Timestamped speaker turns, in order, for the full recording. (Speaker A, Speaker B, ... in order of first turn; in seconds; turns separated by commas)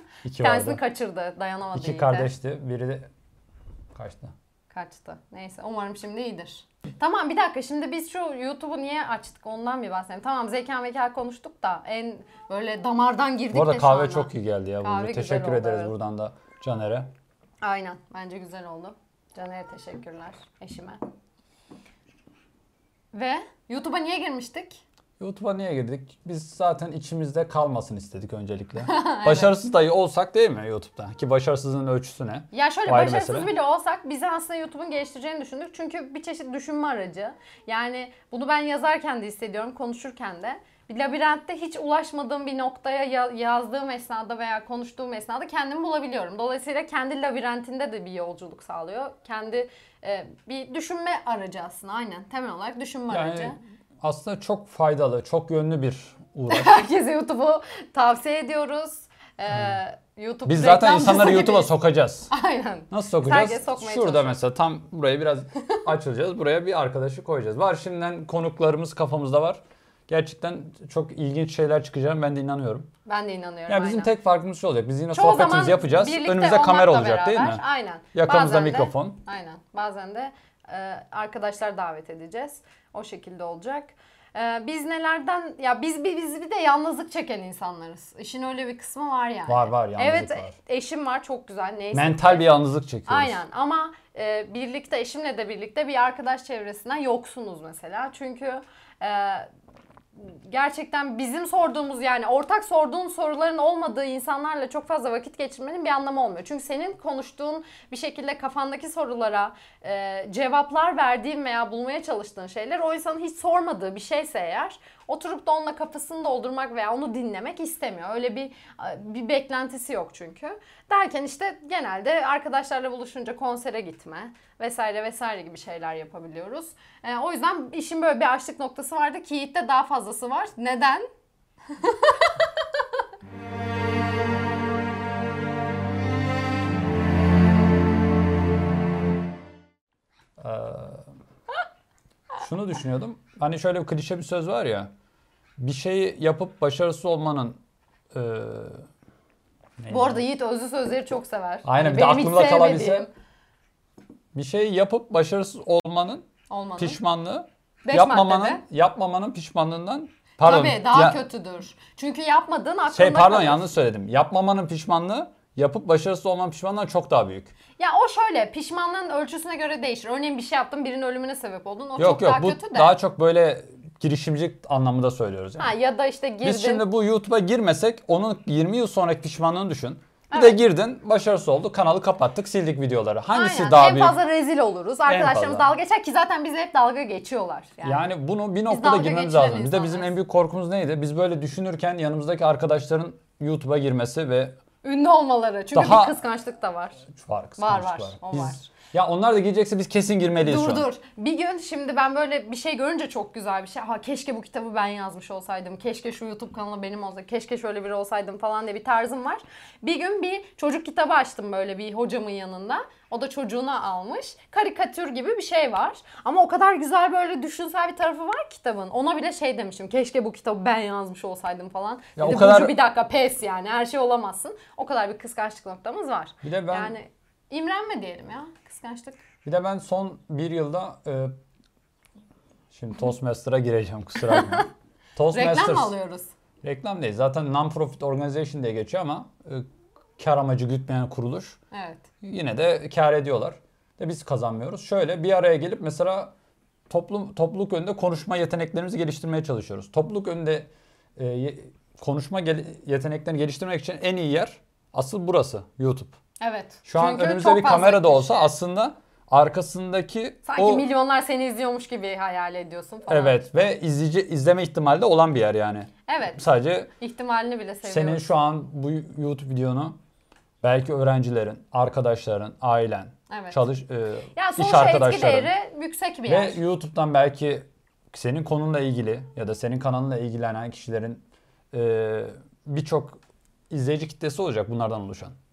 Speaker A: 0.2-0.8, Speaker B: 0.4-2.3, Speaker A: 1.7-3.1, Speaker A: 3.9-4.3, Speaker B: 4.7-14.3, Speaker A: 13.5-17.1, Speaker B: 14.8-15.9, Speaker B: 17.6-21.0, Speaker B: 23.1-24.8, Speaker A: 25.2-33.5, Speaker B: 28.9-29.5, Speaker B: 32.5-53.6, Speaker A: 53.1-56.8, Speaker B: 56.5-61.7, Speaker A: 60.5-62.3, Speaker B: 62.3-64.3, Speaker A: 62.9-72.9, Speaker B: 73.1-74.1, Speaker A: 73.7-77.6, Speaker B: 75.1-92.5, Speaker A: 78.1-79.2, Speaker A: 89.5-90.5, Speaker A: 91.9-93.4, Speaker B: 93.1-99.5, Speaker B: 100.2-131.1, Speaker B: 131.7-132.4, Speaker A: 140.4-141.1, Speaker A: 142.4-144.9, Speaker A: 145.6-147.6, Speaker A: 148.1-148.9, Speaker A: 149.8-150.2, Speaker B: 149.9-153.1, Speaker A: 151.7-153.1, Speaker A: 154.3-161.2, Speaker B: 156.5-157.0, Speaker B: 157.8-158.6, Speaker B: 160.4-163.7, Speaker A: 162.9-167.5, Speaker B: 167.8-173.0, Speaker A: 172.0-175.7, Speaker B: 175.6-176.8, Speaker A: 176.4-184.2, Speaker B: 180.3-180.6, Speaker B: 183.3-188.1, Speaker A: 185.1-185.7, Speaker A: 187.8-194.6, Speaker B: 188.7-190.1, Speaker B: 194.8-197.1, Speaker A: 195.7-196.2, Speaker A: 197.1-200.9, Speaker B: 197.6-198.7, Speaker B: 200.4-229.2, Speaker A: 222.2-222.8, Speaker A: 226.4-226.9, Speaker A: 229.4-231.3, Speaker A: 232.7-235.9, Speaker B: 234.3-234.7, Speaker B: 235.3-236.3, Speaker A: 236.6-239.7, Speaker A: 240.2-241.6, Speaker B: 241.7-242.1, Speaker A: 242.2-246.3, Speaker A: 246.9-256.1, Speaker B: 256.4-258.5, Speaker A: 256.9-260.9, Speaker B: 260.4-263.5, Speaker A: 263.1-266.9, Speaker B: 266.1-266.4, Speaker B: 267.0-268.2, Speaker A: 267.9-270.0, Speaker A: 270.6-275.5, Speaker B: 273.3-273.6, Speaker B: 274.4-276.6, Speaker A: 276.3-285.4